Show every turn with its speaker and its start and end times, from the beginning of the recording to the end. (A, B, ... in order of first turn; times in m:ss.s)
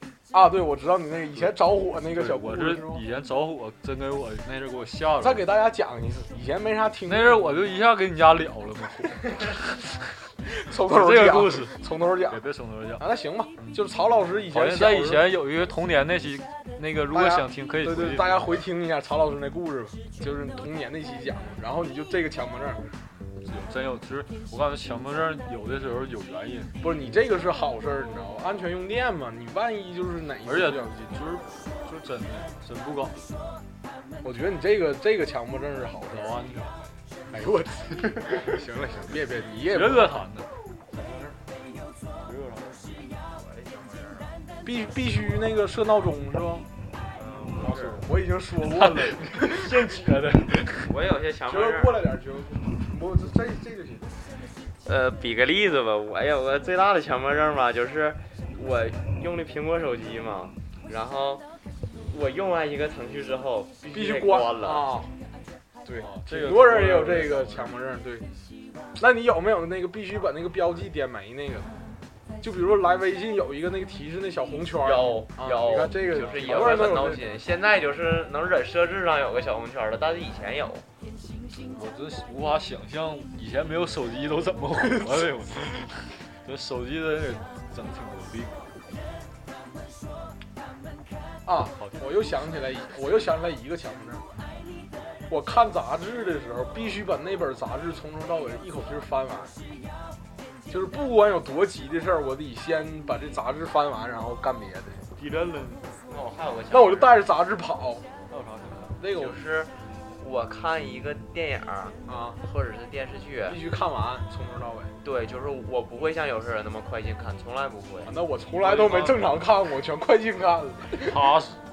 0:00.3-0:03.0 A
0:01.4-0:05.4 B
0:05.2-0:07.6 A
0:07.1-0:10.0 B
0:10.4-0:12.4 A
0:10.8-0:13.0 B
0:13.0-0:15.2 A
0:14.5-0:18.5 B
0:17.1-0:22.9 A
0:23.1-0:26.7 B
0:26.8-0:30.9 A
0:30.5-0:33.4 B
0:34.2-0:36.4 A
0:36.1-0:37.0 B
0:37.3-0:40.2 A
0:39.7-0:41.4 B
0:42.2-0:43.1 B
0:43.3-0:44.4 C
0:44.6-0:46.7 A
0:47.1-0:48.0 C
0:47.6-0:50.0 A
0:48.6-0:50.9 B
0:50.8-0:52.0 C
0:51.5-0:54.1 A
0:54.8-1:01.4 C
1:02.1-1:04.9 C
1:03.9-1:05.1 A
1:05.8-1:08.3 A
1:06.0-1:07.8 B
1:09.0-1:11.7 A
1:12.4-1:17.2 A
1:14.8-1:20.9 C
1:16.1-1:17.3 B
1:21.6-1:28.7 B
1:31.4-1:34.2 A
1:31.8-1:32.2 B
1:35.3-1:39.5 A
1:40.7-1:45.1 A
1:45.2-1:45.9 B
1:46.1-1:47.2 C
1:46.7-1:48.1 A
1:48.3-1:49.0 B
1:49.0-1:49.4 A
1:49.1-1:53.6 C
1:52.1-1:52.4 A
1:53.4-1:55.0 A
1:55.0-1:58.1 C
1:58.0-2:01.2 A
1:58.6-1:59.3 B
2:00.9-2:01.6 B